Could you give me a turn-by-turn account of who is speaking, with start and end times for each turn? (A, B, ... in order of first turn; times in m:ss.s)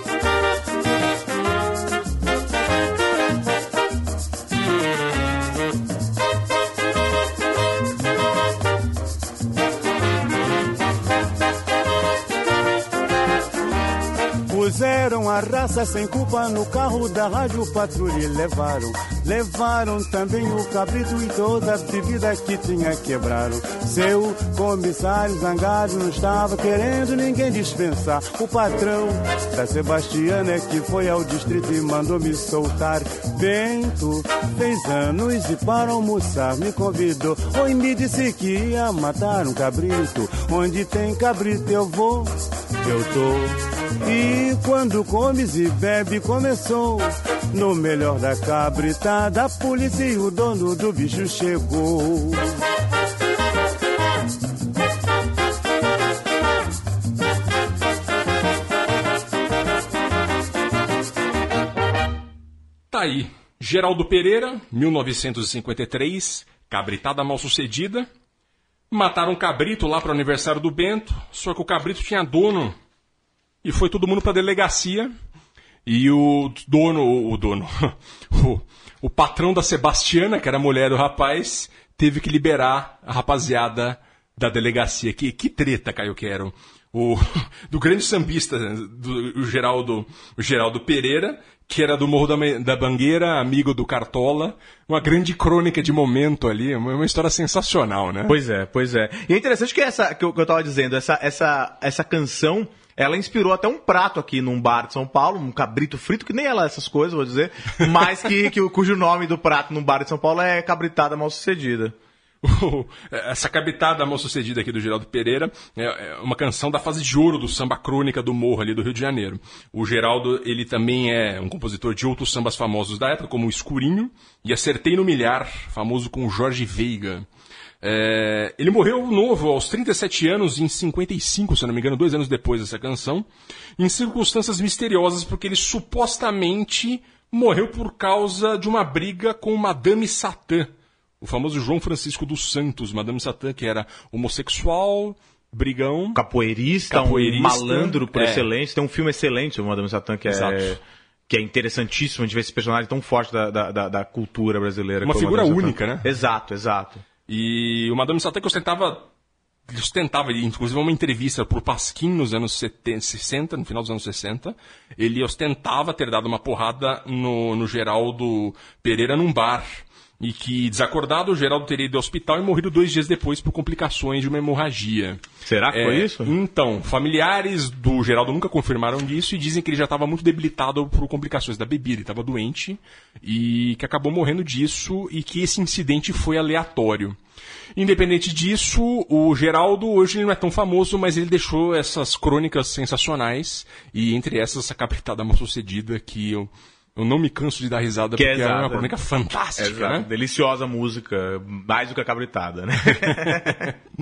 0:14.5-0:52.5 A
1:02.9-1:08.1 B
1:08.9-1:12.8 B
1:13.6-1:15.1 B
1:15.8-1:38.4 B
1:38.3-1:51.9 C
1:52.4-2:07.2 B
2:07.8-2:13.2 B
2:13.8-2:26.2 B
2:26.2-2:37.0 C
2:26.9-2:28.5 B
2:30.3-2:30.7 B
2:35.0-2:36.1 B
2:37.3-2:39.1 B
2:39.7-3:07.2 B
2:55.4-2:56.3 C
3:07.8-3:20.1 B
3:18.2-3:18.9 C
3:19.6-3:23.7 C
3:22.9-3:23.7 B